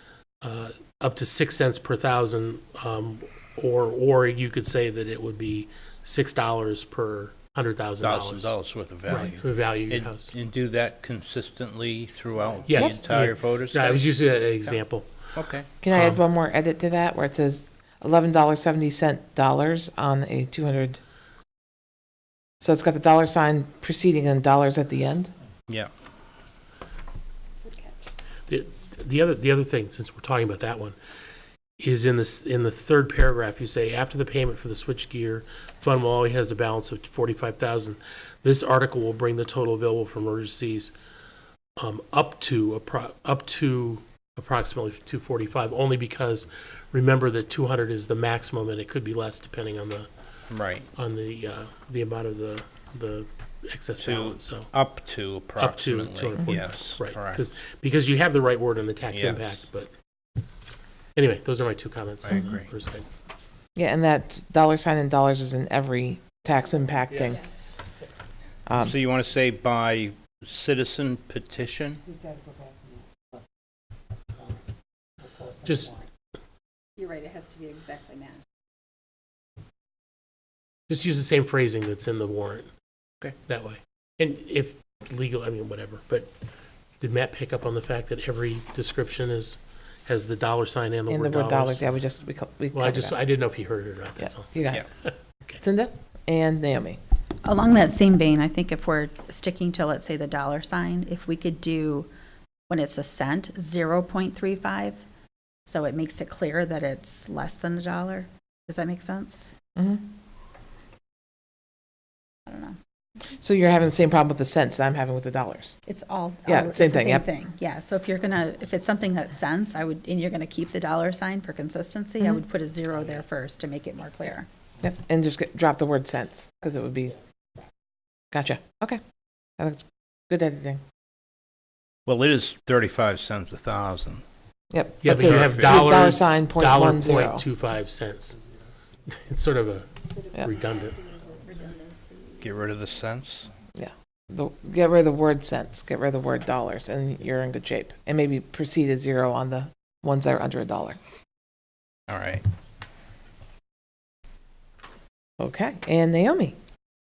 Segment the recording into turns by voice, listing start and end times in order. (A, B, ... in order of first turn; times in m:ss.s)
0:00.4-0:08.5 A
0:08.0-0:14.8 B
0:09.1-0:10.3 A
0:12.6-0:15.1 A
0:15.3-0:15.7 B
0:15.8-0:21.0 C
0:15.9-0:16.2 A
0:22.6-0:25.3 C
0:27.7-0:28.1 D
0:28.5-0:31.0 A
0:31.8-0:40.9 A
0:41.8-0:50.1 A
0:50.5-0:50.9 B
0:51.0-0:54.7 A
0:54.0-0:57.4 B
0:55.6-0:59.9 A
0:59.1-0:59.6 B
1:01.2-1:03.0 A
1:02.2-1:02.7 B
1:03.8-1:07.4 C
1:07.1-1:07.4 A
1:08.7-1:09.0 C
1:08.8-1:12.0 B
1:15.6-1:16.0 A
1:17.0-1:18.4 D
1:20.9-1:22.7 A
1:23.5-1:26.3 A
1:27.0-1:31.9 A
1:31.1-1:33.2 C
1:32.7-1:34.5 A
1:34.5-1:34.8 C
1:35.0-1:35.6 A
1:35.6-1:37.0 C
1:37.4-1:42.1 D
1:42.7-1:45.0 D
1:45.7-1:49.6 D
1:49.8-1:50.0 C
1:52.5-1:52.8 D
1:53.4-1:55.8 C
1:55.9-2:04.5 D
1:56.5-1:57.3 C
2:04.8-2:07.2 C
2:08.3-2:09.0 C
2:09.6-2:10.8 C
2:12.1-2:14.2 B
2:14.7-2:17.4 C
2:15.0-2:18.4 A
2:15.3-2:15.8 B
2:19.1-2:19.9 A
2:20.4-2:21.0 A
2:21.0-2:22.4 D
2:22.4-2:23.5 B
2:23.8-2:31.0 C
2:32.1-2:32.4 B
2:35.4-2:36.6 C